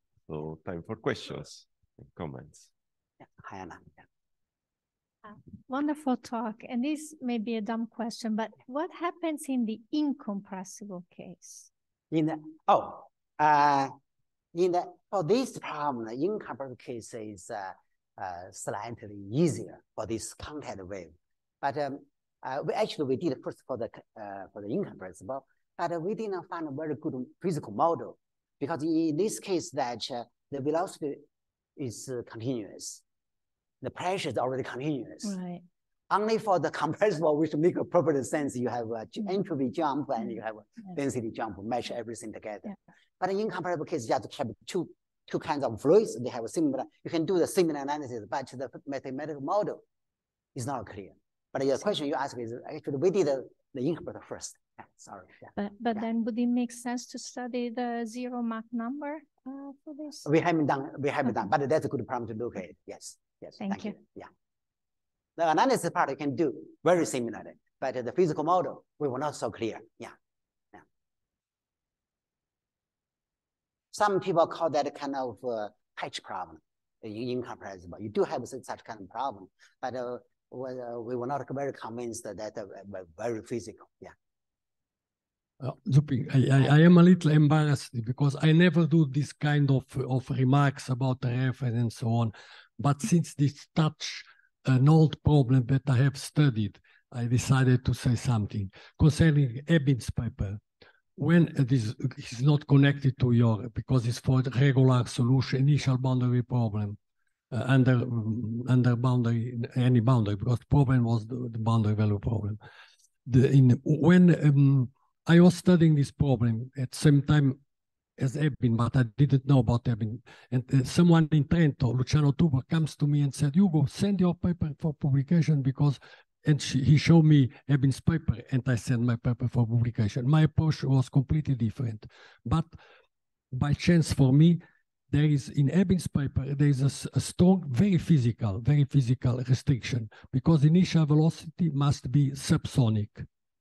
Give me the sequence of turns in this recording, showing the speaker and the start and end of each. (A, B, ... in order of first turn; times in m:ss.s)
0:00.3-0:02.7 A
0:03.4-0:04.0 B
0:05.2-0:11.7 C
0:12.1-0:13.9 B
0:14.5-0:31.2 B
0:31.8-0:33.0 B
0:33.8-0:35.4 B
0:35.2-0:35.6 C
0:36.1-0:49.8 B
0:50.6-0:56.1 B
0:55.6-1:00.3 C
1:00.2-1:04.3 B
1:03.6-1:03.9 C
1:05.4-1:10.1 B
1:13.9-1:24.1 B
1:25.6-1:40.6 D
1:41.2-1:47.0 D
1:47.5-1:52.6 D
1:53.2-1:57.6 D
1:58.2-2:12.8 D
2:13.5-2:23.2 D